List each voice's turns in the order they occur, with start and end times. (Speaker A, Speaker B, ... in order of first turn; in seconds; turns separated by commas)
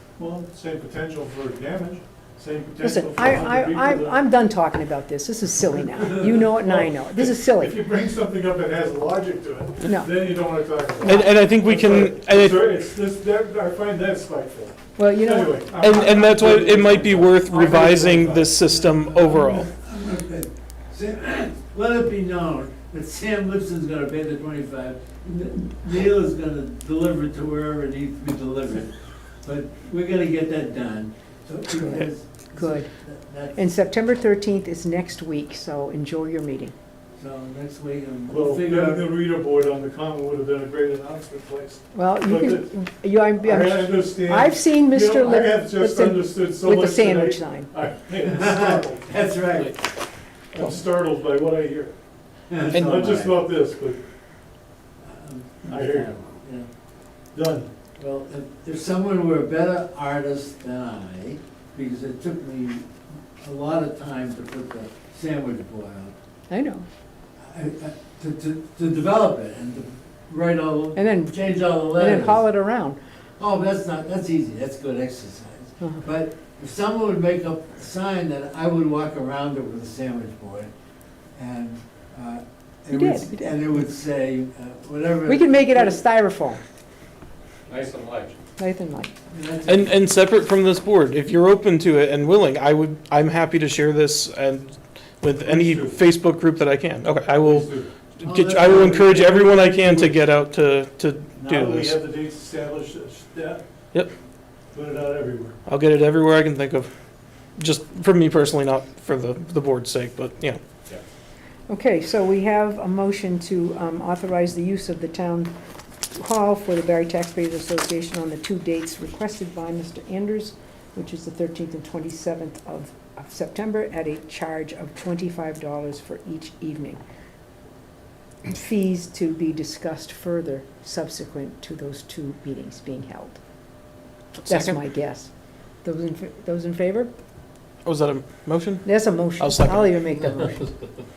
Speaker A: 0.2-4.2, Speaker B: 2.8-7.8, Speaker A: 5.9-18.4, Speaker B: 9.8-11.3, Speaker C: 11.0-12.8, Speaker B: 15.0-16.0, Speaker C: 15.8-19.7, Speaker D: 16.3-33.6, Speaker B: 31.7-32.9, Speaker B: 33.5-36.7, Speaker D: 37.2-39.1, Speaker A: 38.3-42.7, Speaker B: 41.9-47.7, Speaker A: 43.4-49.1, Speaker D: 48.2-49.8, Speaker A: 50.5-51.9, Speaker D: 52.5-53.4, Speaker A: 52.7-54.0, Speaker D: 55.0-56.7, Speaker A: 55.7-56.1, Speaker A: 57.3-57.7, Speaker D: 58.0-66.1, Speaker B: 66.5-66.9, Speaker D: 67.4-72.4, Speaker B: 71.0-73.0, Speaker D: 73.4-80.7, Speaker D: 81.3-86.0, Speaker B: 82.9-83.6, Speaker B: 85.2-86.6, Speaker D: 87.7-88.3, Speaker B: 88.6-89.1, Speaker D: 89.3-90.0, Speaker C: 89.7-101.9, Speaker A: 95.4-96.0, Speaker A: 97.4-97.9, Speaker D: 98.2-99.9, Speaker A: 98.9-100.1, Speaker A: 101.4-103.6, Speaker A: 104.7-105.5, Speaker C: 105.7-106.9, Speaker C: 107.6-110.6, Speaker B: 111.7-115.5, Speaker B: 116.2-127.0, Speaker B: 128.4-133.4, Speaker C: 134.4-134.8, Speaker B: 134.4-135.3, Speaker B: 135.8-137.1, Speaker C: 137.8-140.0, Speaker B: 138.8-140.7